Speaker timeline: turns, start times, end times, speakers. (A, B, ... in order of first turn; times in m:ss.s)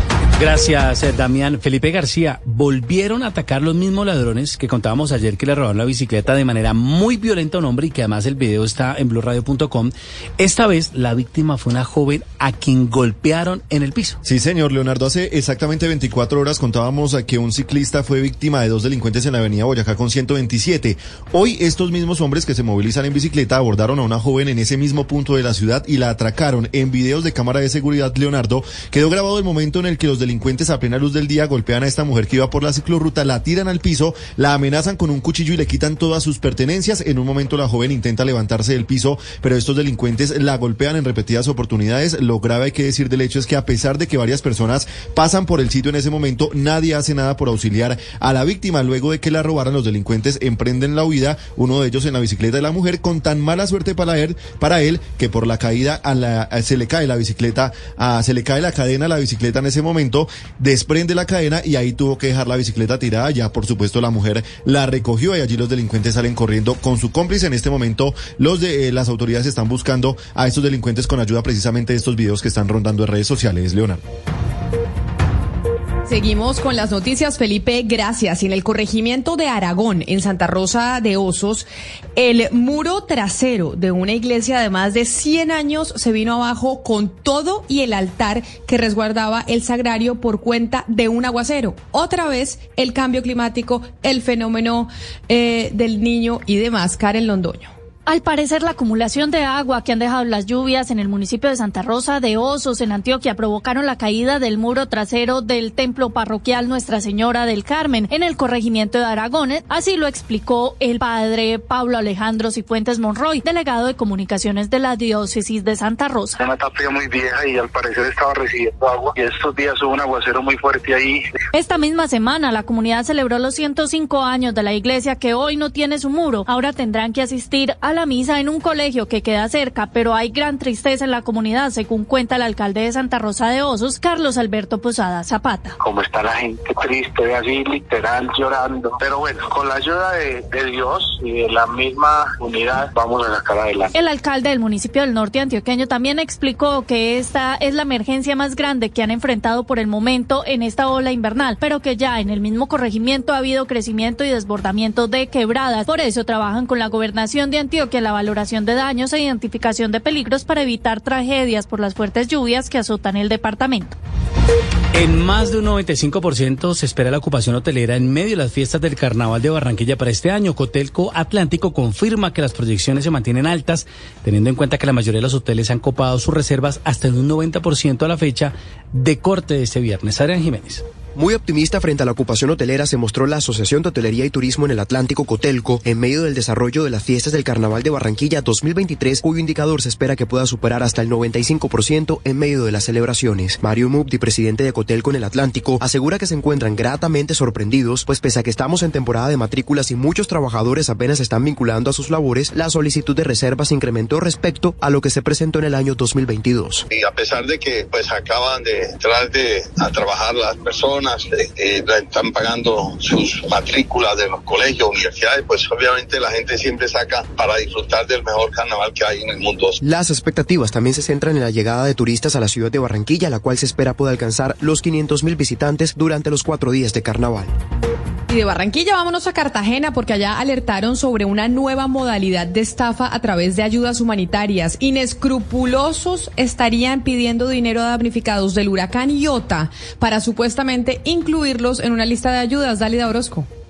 0:00.4-0:14.2 A
0:14.2-1:14.0 B
1:16.1-1:37.7 C
1:38.1-1:56.4 D
1:56.4-2:01.2 E
2:01.5-2:15.8 D
2:15.8-2:23.9 E
2:23.9-2:43.9 D
2:44.9-3:00.8 A
3:01.1-3:26.8 F
3:26.9-3:39.8 G
3:39.8-3:47.5 F
3:48.3-4:03.5 C